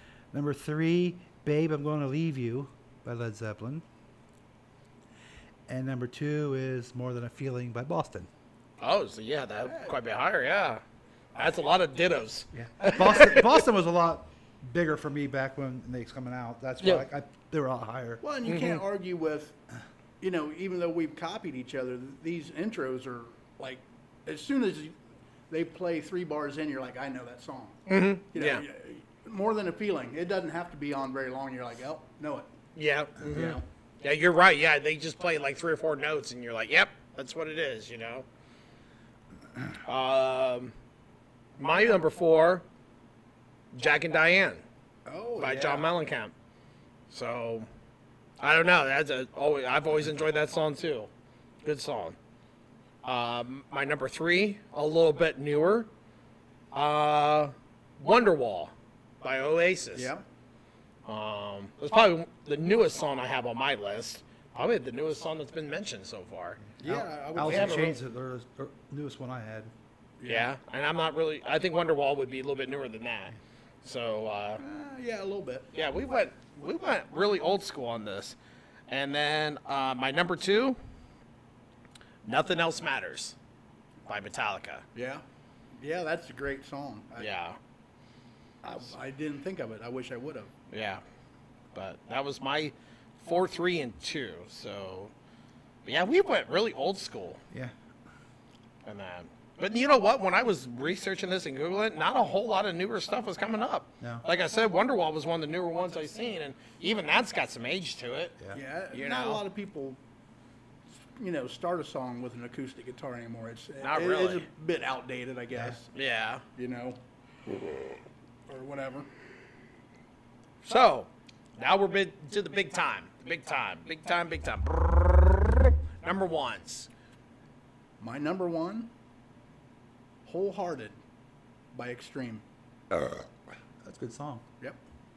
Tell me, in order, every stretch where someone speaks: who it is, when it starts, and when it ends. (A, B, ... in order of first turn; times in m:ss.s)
0:00.3-0:03.8 A
0:05.7-0:08.3 A
0:08.8-0:10.8 B
0:09.7-0:09.9 C
0:11.3-0:13.6 B
0:12.5-0:18.2 A
0:18.2-0:19.6 C
0:18.4-0:18.8 B
0:20.2-0:24.9 C
0:25.5-0:32.5 C
0:27.9-0:28.6 B
0:32.8-0:38.2 B
0:33.2-0:33.6 C
0:39.8-0:40.7 B
0:41.6-0:42.6 B
0:43.7-0:44.6 B
0:45.0-0:45.9 C
0:45.4-0:46.3 B
0:47.1-0:47.7 B
0:48.4-0:51.1 B
0:51.6-0:52.2 B
0:53.0-0:55.9 B
0:56.7-1:00.1 B
1:00.0-1:00.2 C
1:01.0-1:06.6 B
1:06.8-1:09.7 A
1:06.8-1:08.0 C
1:07.4-1:07.9 B
1:10.2-1:10.5 C
1:10.2-1:14.6 B
1:14.6-1:15.7 C
1:15.7-1:18.4 B
1:18.9-1:20.8 B
1:22.2-1:23.4 B
1:24.1-1:24.8 B
1:24.9-1:25.2 C
1:25.8-1:27.3 C
1:27.2-1:27.6 B
1:28.6-1:30.5 C
1:30.7-1:31.0 B
1:31.7-1:35.1 B
1:35.8-1:37.4 B
1:38.8-1:48.4 B
1:48.5-1:50.0 C
1:48.9-1:49.4 B
1:51.2-1:55.9 C
1:53.8-1:54.5 B
1:55.9-1:56.4 B
1:56.5-1:57.0 C
1:58.5-1:59.1 C
2:00.6-2:06.9 B
2:08.0-2:08.9 C
2:10.2-2:11.0 C
2:11.7-2:12.4 C
2:12.9-2:13.2 A
2:13.8-2:14.4 A